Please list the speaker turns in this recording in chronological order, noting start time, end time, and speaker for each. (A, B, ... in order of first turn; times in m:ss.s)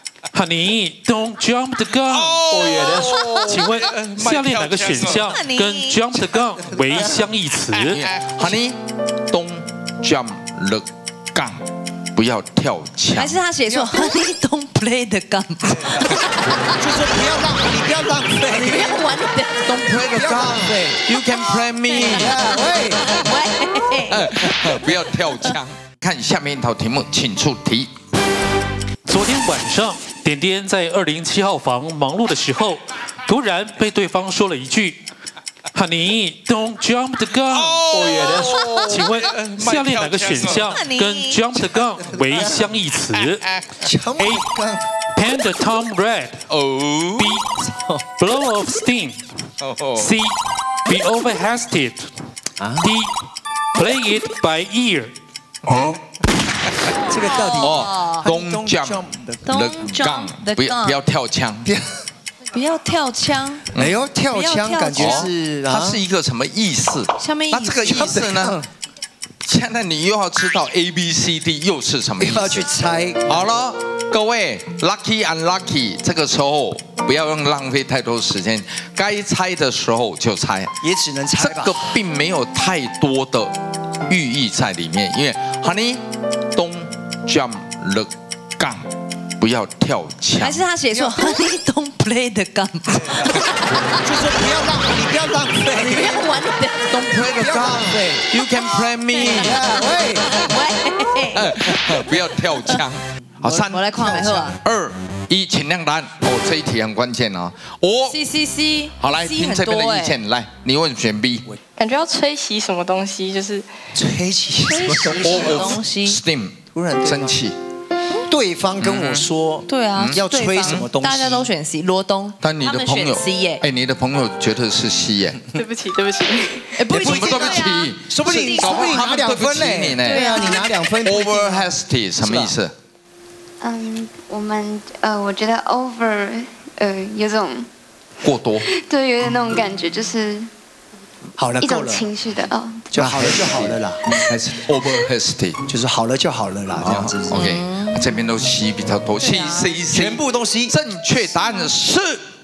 0:00.3-0:08.0 A
0:02.1-0:05.3 B
0:02.9-0:03.6 C
0:05.0-0:06.0 C
0:07.7-0:08.8 B
0:09.3-0:11.6 B
0:12.1-0:13.4 B
0:13.1-0:17.0 C
0:13.7-0:14.1 D
0:16.8-0:18.8 D
0:18.4-0:19.0 B
0:18.5-0:19.9 C
0:19.6-0:22.4 B
0:20.0-0:21.0 D
0:21.3-0:25.6 C
0:22.1-0:23.0 D
0:24.1-0:27.9 B
0:29.0-0:35.0 A
0:35.7-0:43.4 A
0:37.5-0:40.8 B
0:38.4-0:38.9 C
0:40.5-0:41.4 C
0:43.8-0:44.8 D
0:44.2-0:44.4 A
0:45.1-0:46.4 A
0:46.5-0:47.3 B
0:47.2-0:47.6 A
0:48.2-0:49.2 A
0:49.6-0:50.1 B
0:50.0-0:50.3 A
0:50.9-0:52.0 A
0:52.6-0:52.9 D
0:52.8-0:53.1 A
0:53.7-0:55.1 A
0:55.7-0:56.0 D
0:57.0-0:59.4 D
0:57.1-0:58.3 C
0:57.6-1:01.7 B
0:59.4-1:01.0 C
1:02.5-1:03.7 C
1:03.7-1:04.0 B
1:03.8-1:06.0 D
1:04.3-1:05.3 C
1:04.9-1:08.6 B
1:07.2-1:08.3 C
1:08.0-1:08.6 D
1:09.4-1:12.7 B
1:12.2-1:13.4 D
1:13.3-1:20.7 B
1:20.8-1:21.8 D
1:21.4-1:23.5 B
1:24.1-1:26.0 B
1:26.5-1:28.8 B
1:29.4-1:30.6 B
1:30.4-1:34.4 C
1:30.9-1:31.3 D
1:34.0-1:36.2 D
1:35.7-1:37.2 C
1:36.9-1:39.6 B
1:37.3-1:38.3 D
1:38.5-1:42.8 C
1:39.2-1:40.3 D
1:41.3-1:48.2 B
1:43.4-1:44.6 C
1:48.1-1:50.2 C
1:49.0-1:51.4 B
1:51.8-1:53.7 E
1:53.9-1:55.7 D
1:54.6-1:56.2 C
1:55.2-1:57.6 B
1:56.7-1:57.4 D
1:58.2-2:01.5 D
1:58.8-1:59.3 B
1:59.7-2:03.6 C
1:59.9-2:00.9 B
2:02.4-2:05.4 B
2:05.6-2:06.8 E
2:06.8-2:09.1 C
2:06.8-2:12.6 D
2:07.0-2:10.4 B
2:10.0-2:10.7 C
2:11.0-2:12.7 B
2:13.6-2:17.7 F
2:18.2-2:18.7 B
2:18.7-2:20.5 F
2:21.4-2:22.2 D
2:21.7-2:22.8 F
2:22.9-2:24.0 D
2:22.9-2:25.6 B
2:25.7-2:27.4 D
2:26.8-2:32.2 B
2:27.3-2:28.1 C
2:29.2-2:29.9 C
2:29.9-2:30.8 D